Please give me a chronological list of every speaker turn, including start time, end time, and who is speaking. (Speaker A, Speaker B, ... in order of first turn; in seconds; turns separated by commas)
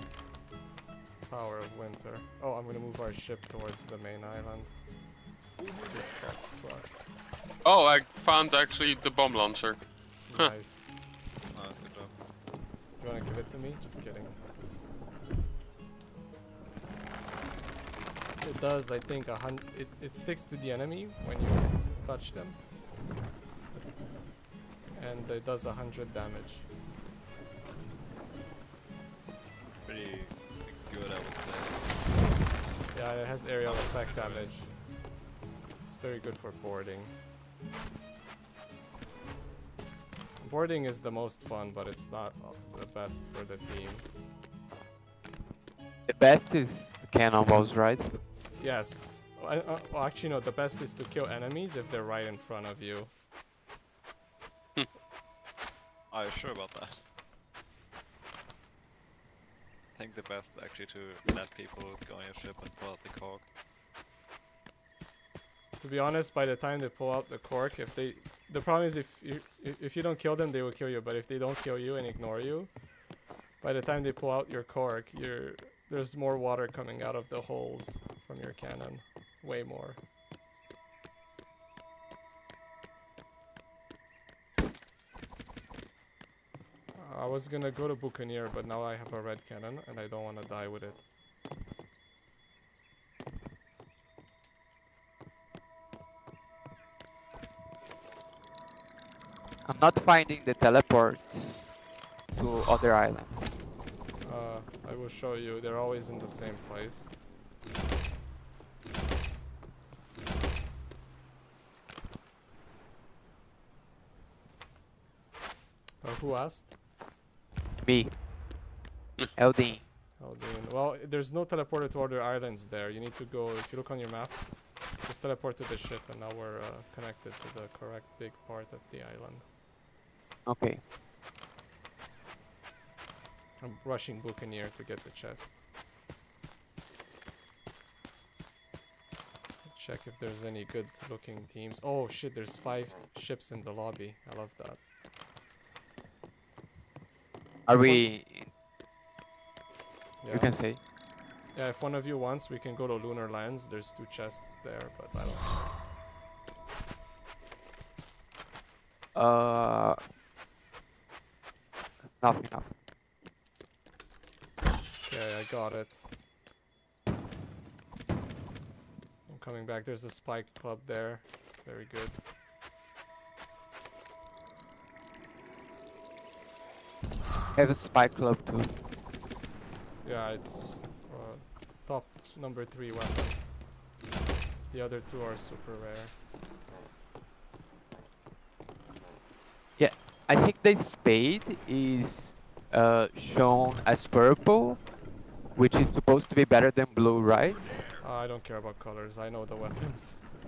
Speaker A: 1.3-4.9, Speaker A: 5.6-7.1, Speaker B: 7.6-10.5, Speaker A: 10.3-10.9, Speaker C: 11.5-12.2, Speaker A: 13.0-14.4, Speaker A: 18.4-22.7, Speaker A: 24.9-26.7, Speaker C: 29.9-31.9, Speaker A: 32.9-34.8, Speaker C: 33.6-34.6, Speaker A: 35.8-37.2, Speaker A: 40.4-44.1, Speaker D: 46.1-48.2, Speaker A: 48.6-53.1, Speaker C: 56.1-57.0, Speaker C: 60.0-63.5, Speaker A: 65.8-72.9, Speaker A: 73.6-80.0, Speaker A: 86.9-91.0, Speaker D: 99.6-101.7, Speaker D: 102.3-103.5, Speaker A: 104.2-107.2, Speaker A: 116.0-116.8, Speaker D: 117.8-118.2, Speaker D: 119.4-119.9, Speaker A: 120.2-129.5, Speaker D: 130.5-130.8, Speaker A: 133.6-135.6, Speaker A: 139.6-144.8, Speaker D: 147.7-148.5, Speaker A: 147.8-148.1, Speaker A: 150.2-150.6, Speaker D: 150.3-150.8, Speaker A: 151.5-155.7, Speaker D: 159.1-160.0, Speaker D: 162.2-162.7, Speaker A: 165.0-166.0, Speaker A: 169.3-172.2, Speaker D: 177.5-178.7, Speaker A: 180.0-183.4, Speaker A: 184.7-186.2, Speaker D: 189.8-194.9, Speaker D: 195.5-197.9, Speaker A: 198.0-200.3